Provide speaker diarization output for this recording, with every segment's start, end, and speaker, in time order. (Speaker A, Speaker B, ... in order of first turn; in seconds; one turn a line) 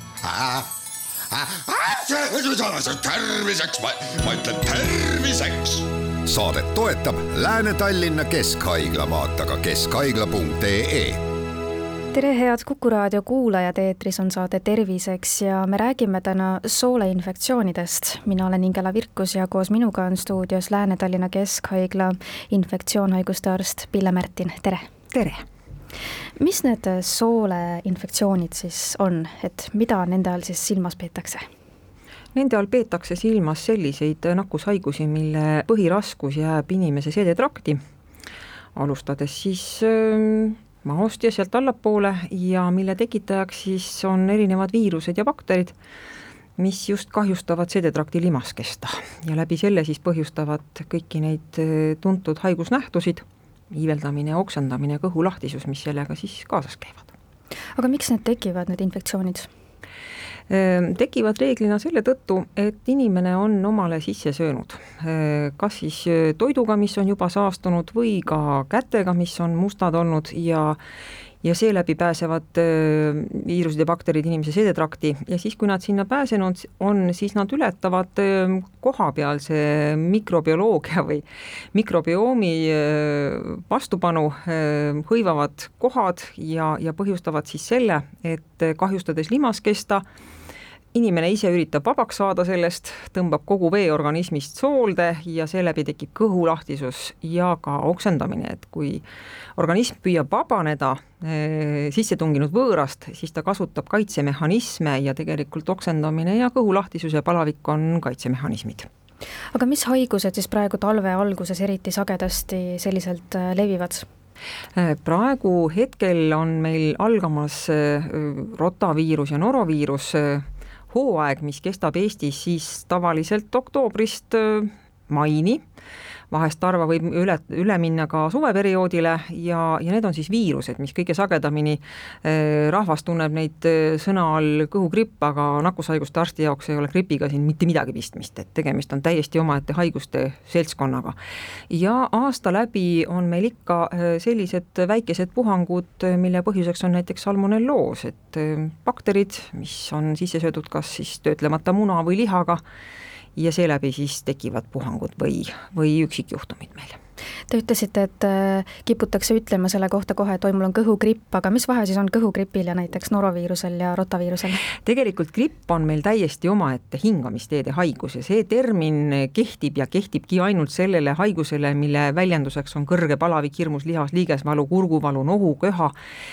Speaker A: 0.2-0.7
Speaker A: 1.3-1.6
Speaker B: 1.5-5.9
Speaker A: 6.3-11.2
Speaker C: 12.1-24.9
Speaker D: 25.1-25.4
Speaker C: 26.4-31.4
Speaker D: 32.4-37.8
Speaker D: 38.8-45.8
Speaker D: 46.6-57.1
Speaker C: 57.8-59.5
Speaker D: 60.5-70.8
Speaker D: 71.4-90.0
Speaker D: 90.9-99.0
Speaker D: 99.6-108.9
Speaker C: 109.5-114.1
Speaker D: 114.8-125.6
Speaker D: 126.3-141.2
Speaker D: 141.7-152.6
Speaker D: 153.4-157.0
Speaker C: 157.5-164.7
Speaker D: 164.8-175.9